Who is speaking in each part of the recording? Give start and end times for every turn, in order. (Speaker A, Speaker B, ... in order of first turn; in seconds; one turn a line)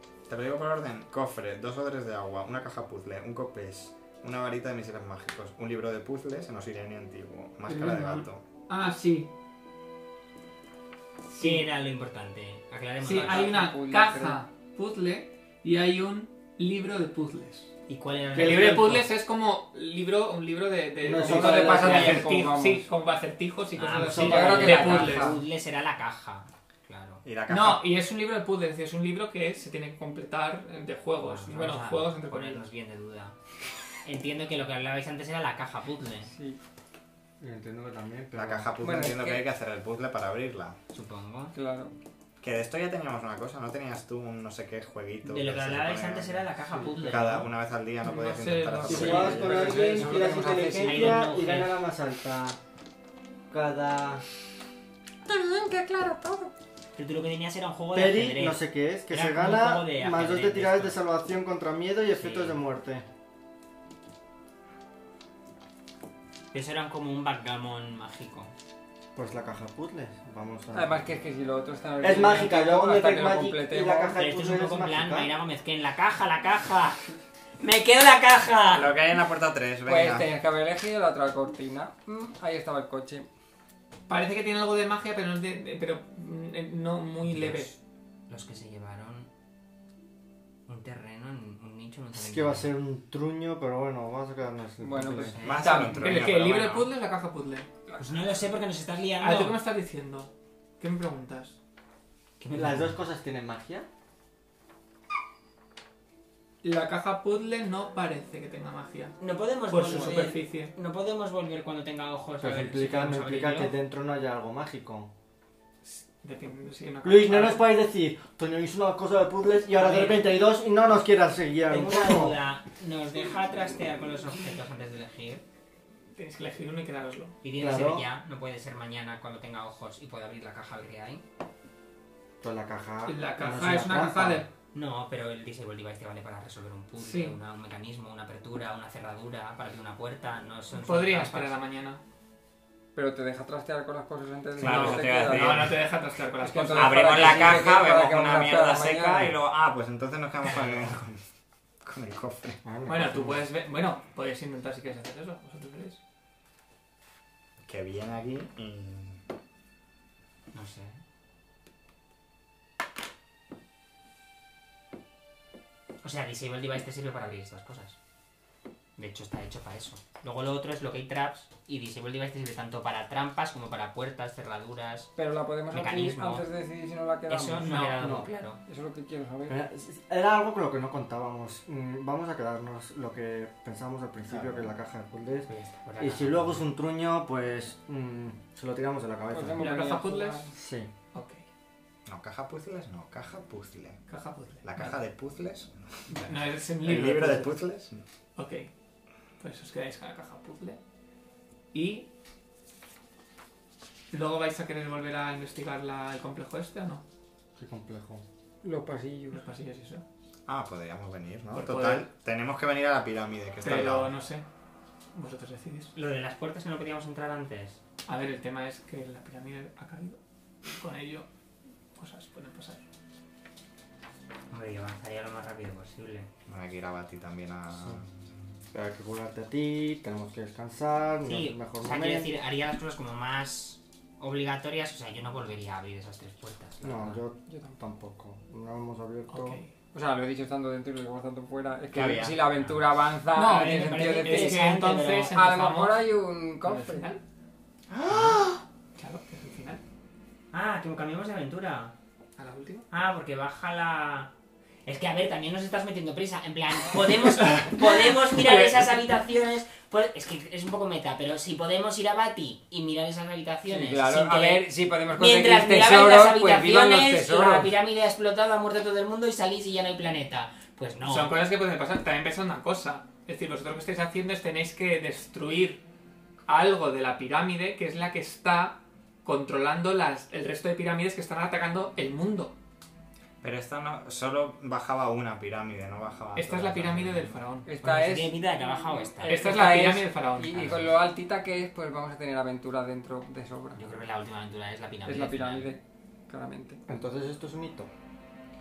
Speaker A: 0.3-8.4
Speaker B: 7.7-9.3
Speaker C: 11.3-13.7
Speaker B: 11.3-11.7
Speaker B: 13.0-17.7
Speaker D: 13.0-14.4
Speaker C: 17.9-19.0
Speaker E: 18.3-19.0
Speaker B: 18.4-25.3
Speaker E: 21.0-22.2
Speaker D: 21.1-22.9
Speaker C: 23.8-27.2
Speaker E: 24.0-24.8
Speaker D: 24.0-25.4
Speaker A: 27.2-27.9
Speaker B: 27.5-32.6
Speaker C: 31.2-33.4
Speaker C: 34.0-36.3
Speaker D: 36.3-36.6
Speaker E: 37.4-38.7
Speaker A: 38.4-40.8
Speaker D: 38.8-39.5
Speaker C: 40.9-41.5
Speaker D: 41.5-41.9
Speaker A: 42.4-49.9
Speaker C: 45.2-47.5
Speaker B: 48.0-50.1
Speaker D: 48.9-51.3
Speaker E: 48.9-52.6
Speaker C: 50.6-51.8
Speaker E: 53.5-54.2
Speaker D: 55.2-56.5
Speaker C: 56.9-61.0
Speaker E: 57.9-63.0
Speaker C: 62.1-62.6
Speaker C: 66.5-68.5
Speaker E: 69.1-71.1
Speaker D: 70.7-74.2
Speaker E: 72.0-75.3
Speaker C: 74.2-77.0
Speaker C: 77.6-78.9
Speaker A: 78.7-80.3
Speaker D: 79.8-83.3
Speaker B: 84.1-87.7
Speaker C: 87.2-89.3
Speaker C: 90.7-92.7
Speaker E: 92.1-95.4
Speaker D: 94.8-96.0
Speaker C: 95.2-95.9
Speaker A: 95.4-96.9
Speaker B: 95.7-97.7
Speaker C: 98.0-99.6
Speaker B: 99.2-101.6
Speaker C: 102.4-103.0
Speaker E: 102.5-103.9
Speaker B: 106.6-109.2
Speaker C: 109.2-113.7
Speaker B: 109.7-110.7
Speaker E: 112.4-115.1
Speaker B: 115.8-117.7
Speaker E: 117.0-122.4
Speaker C: 119.8-120.1
Speaker B: 119.9-120.2
Speaker C: 121.7-125.4
Speaker B: 126.1-127.3
Speaker C: 127.4-131.2
Speaker E: 127.6-128.1
Speaker E: 132.4-134.4
Speaker B: 133.1-134.5
Speaker C: 134.7-141.5
Speaker B: 137.0-137.4
Speaker B: 140.7-142.0
Speaker D: 142.9-145.7
Speaker A: 144.6-145.9
Speaker B: 144.6-147.6
Speaker D: 146.4-149.4
Speaker A: 146.7-151.2
Speaker A: 151.8-152.6
Speaker E: 152.6-153.5
Speaker B: 152.8-156.0
Speaker A: 157.6-159.2
Speaker C: 160.5-161.0
Speaker C: 166.0-167.9
Speaker C: 169.0-175.1
Speaker D: 175.2-177.9
Speaker C: 175.7-176.5
Speaker C: 177.3-178.6
Speaker B: 177.6-178.1
Speaker E: 178.0-178.3
Speaker D: 178.6-179.6
Speaker E: 179.5-189.7
Speaker C: 185.4-186.7
Speaker D: 189.3-190.6
Speaker B: 189.6-190.5
Speaker E: 190.5-190.9
Speaker B: 191.1-191.4
Speaker A: 192.1-194.0
Speaker B: 194.1-194.9
Speaker A: 194.6-196.1
Speaker B: 196.1-197.6
Speaker A: 196.8-198.0
Speaker B: 198.3-198.7
Speaker B: 199.4-200.8
Speaker B: 201.7-202.1
Speaker B: 204.1-207.0
Speaker E: 207.6-208.2
Speaker D: 208.6-209.4
Speaker B: 209.3-210.0
Speaker A: 210.5-214.1
Speaker B: 211.5-212.1
Speaker B: 213.6-214.4
Speaker B: 215.1-215.9
Speaker C: 215.9-217.8
Speaker B: 218.1-221.3
Speaker B: 221.9-222.8
Speaker C: 224.5-226.3
Speaker A: 226.5-228.5
Speaker E: 228.7-232.3
Speaker C: 231.2-237.2
Speaker E: 236.8-239.6
Speaker D: 237.5-237.8
Speaker B: 239.3-239.7
Speaker D: 239.9-247.1
Speaker A: 241.9-242.4
Speaker C: 242.5-245.3
Speaker B: 243.3-246.1
Speaker B: 246.6-247.2
Speaker C: 247.9-248.6
Speaker B: 248.1-248.4
Speaker B: 248.9-249.8
Speaker C: 250.5-251.9
Speaker B: 252.4-252.9
Speaker C: 252.9-254.3
Speaker C: 254.8-271.3
Speaker B: 257.4-258.8
Speaker D: 263.7-267.7
Speaker B: 271.1-275.8
Speaker B: 276.5-282.6
Speaker A: 283.4-287.4
Speaker B: 286.4-287.7
Speaker D: 287.6-288.5
Speaker C: 287.8-289.6
Speaker D: 289.0-293.8
Speaker B: 289.3-290.6
Speaker C: 290.4-291.0
Speaker C: 293.7-295.7
Speaker D: 295.1-296.8
Speaker E: 296.9-297.9